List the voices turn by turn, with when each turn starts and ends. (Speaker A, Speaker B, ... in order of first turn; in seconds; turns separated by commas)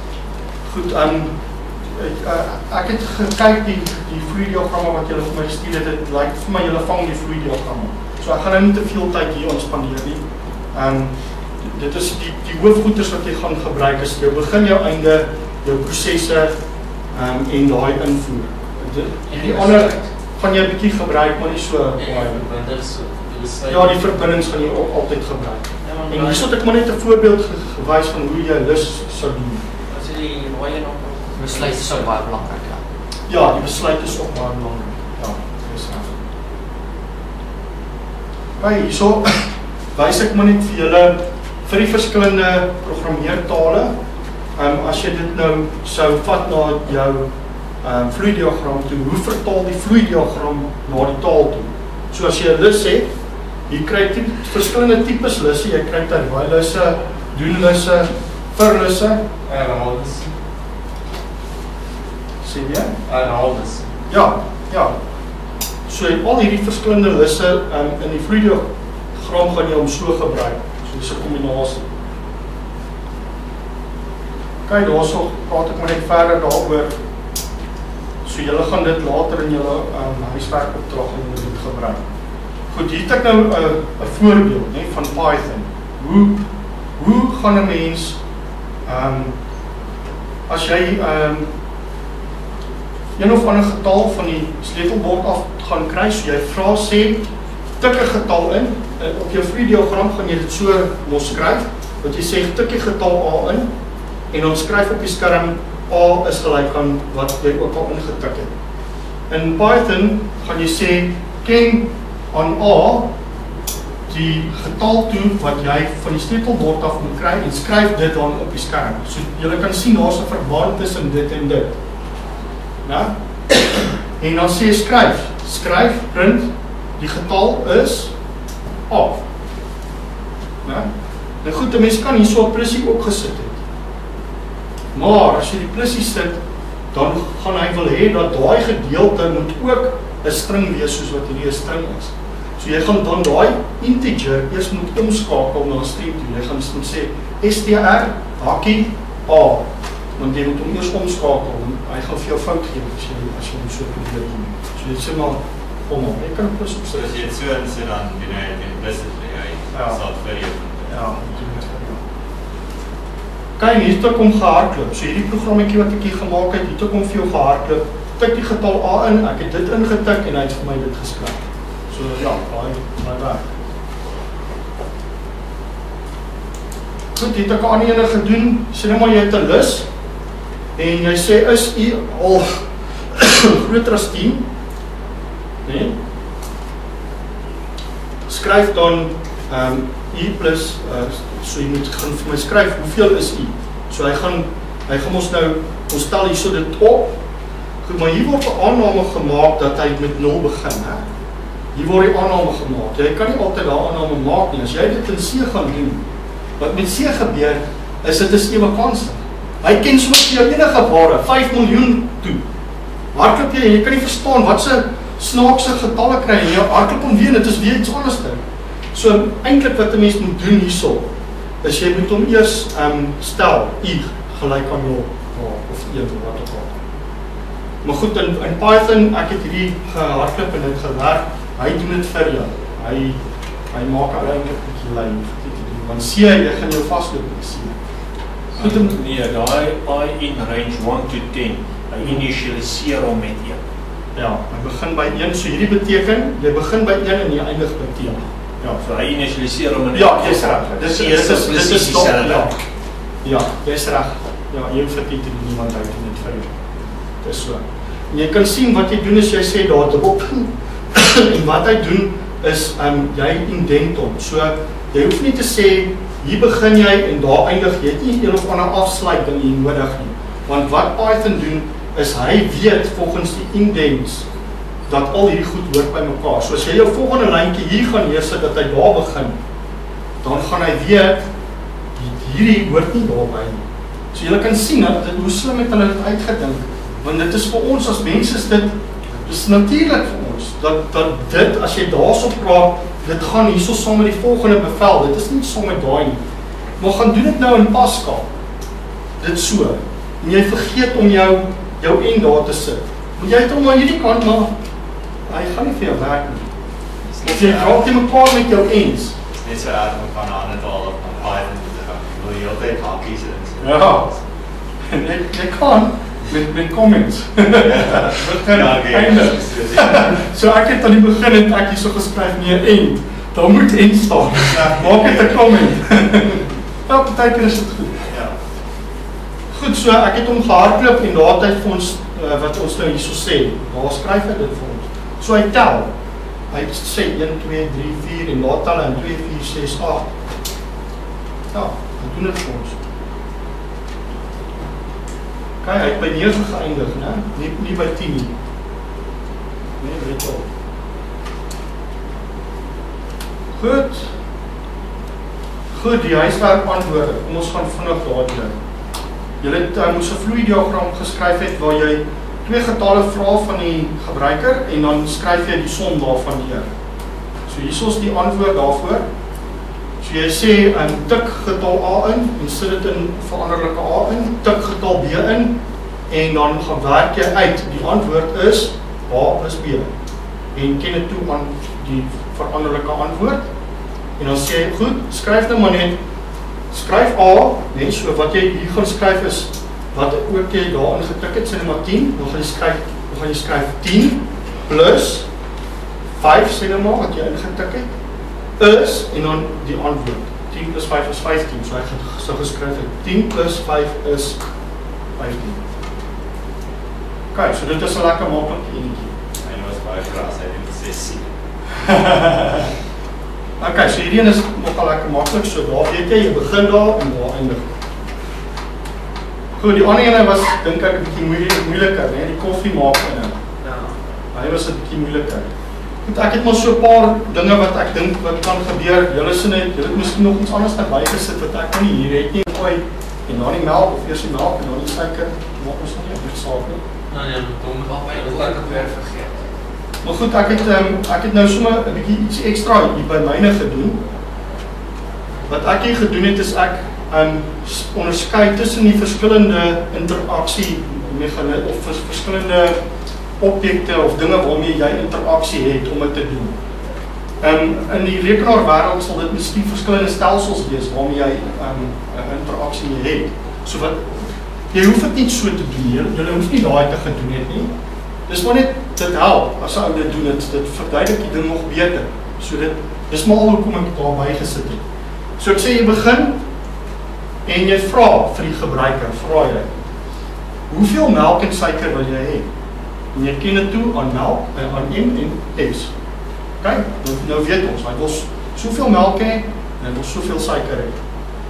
Speaker A: 0.7-1.3, Speaker A: 1.9-16.5, Speaker A: 17.1-22.4, Speaker B: 19.3-20.1, Speaker C: 22.0-24.1, Speaker A: 23.7-29.6, Speaker B: 25.8-26.5, Speaker B: 29.9-32.8, Speaker C: 31.4-32.1, Speaker A: 33.3-36.2, Speaker A: 38.6-43.9, Speaker A: 44.6-47.3, Speaker A: 47.8-53.1, Speaker A: 53.7-59.2, Speaker C: 59.5-60.3, Speaker A: 62.4-62.9, Speaker C: 63.1-64.0, Speaker A: 64.1-64.9, Speaker A: 65.9-68.7, Speaker A: 69.2-71.9, Speaker A: 74.7-76.9, Speaker A: 78.2-82.0, Speaker A: 82.7-86.5, Speaker A: 87.0-88.2, Speaker A: 88.8-89.4, Speaker A: 90.5-91.5, Speaker A: 93.2-97.3, Speaker A: 97.8-103.7, Speaker A: 104.3-108.5, Speaker A: 109.3-113.1, Speaker A: 114.1-121.7, Speaker A: 122.8-123.6, Speaker A: 124.2-128.1, Speaker A: 128.9-129.2, Speaker A: 131.4-133.5, Speaker A: 134.9-136.4, Speaker A: 136.9-157.3, Speaker D: 156.9-161.1, Speaker A: 159.7-160.0, Speaker A: 160.9-162.0, Speaker A: 163.6-173.4, Speaker A: 177.1-179.8, Speaker A: 180.8-182.6, Speaker A: 183.1-184.4, Speaker A: 185.6-185.9, Speaker A: 188.3-197.1, Speaker A: 197.8-201.0, Speaker A: 201.7-206.0, Speaker A: 206.6-212.4, Speaker A: 213.1-218.4, Speaker A: 218.9-221.0, Speaker A: 221.6-226.7, Speaker A: 227.8-233.2, Speaker A: 233.7-237.8, Speaker E: 238.6-243.6, Speaker A: 238.6-239.0, Speaker A: 242.0-242.2, Speaker A: 244.1-248.8, Speaker E: 248.8-252.5, Speaker A: 249.9-252.5, Speaker A: 253.2-256.5, Speaker A: 257.2-274.2, Speaker A: 274.9-279.3, Speaker A: 280.2-281.2, Speaker A: 281.9-296.2, Speaker A: 296.8-298.3, Speaker A: 299.2-304.5, Speaker A: 305.3-306.5, Speaker D: 307.1-307.8, Speaker A: 307.2-309.1, Speaker D: 309.4-314.2, Speaker A: 313.6-314.1, Speaker A: 314.9-328.1, Speaker D: 317.5-320.2, Speaker D: 324.4-325.6, Speaker A: 329.5-335.9, Speaker A: 336.5-340.1, Speaker A: 341.5-342.8, Speaker A: 345.6-348.3, Speaker A: 349.8-350.5, Speaker A: 353.6-354.1, Speaker A: 355.7-358.5, Speaker A: 359.4-366.7, Speaker A: 367.5-369.0, Speaker A: 370.0-375.5, Speaker A: 376.1-379.9, Speaker A: 380.5-383.4, Speaker A: 384.2-386.0, Speaker A: 386.7-395.3, Speaker A: 396.2-397.9, Speaker A: 398.6-404.4, Speaker A: 405.2-405.6, Speaker A: 407.3-409.1, Speaker D: 409.4-411.3, Speaker A: 411.9-412.6, Speaker A: 413.6-417.7, Speaker A: 419.6-423.4, Speaker A: 424.3-425.5, Speaker A: 426.0-436.8, Speaker C: 437.1-438.9, Speaker B: 437.9-439.4, Speaker A: 440.0-444.0, Speaker A: 445.5-452.8, Speaker A: 453.4-456.5, Speaker A: 457.4-467.7, Speaker A: 468.3-474.8, Speaker A: 475.4-476.4, Speaker A: 477.4-479.7, Speaker A: 480.7-482.4, Speaker A: 483.1-485.9, Speaker A: 486.6-490.9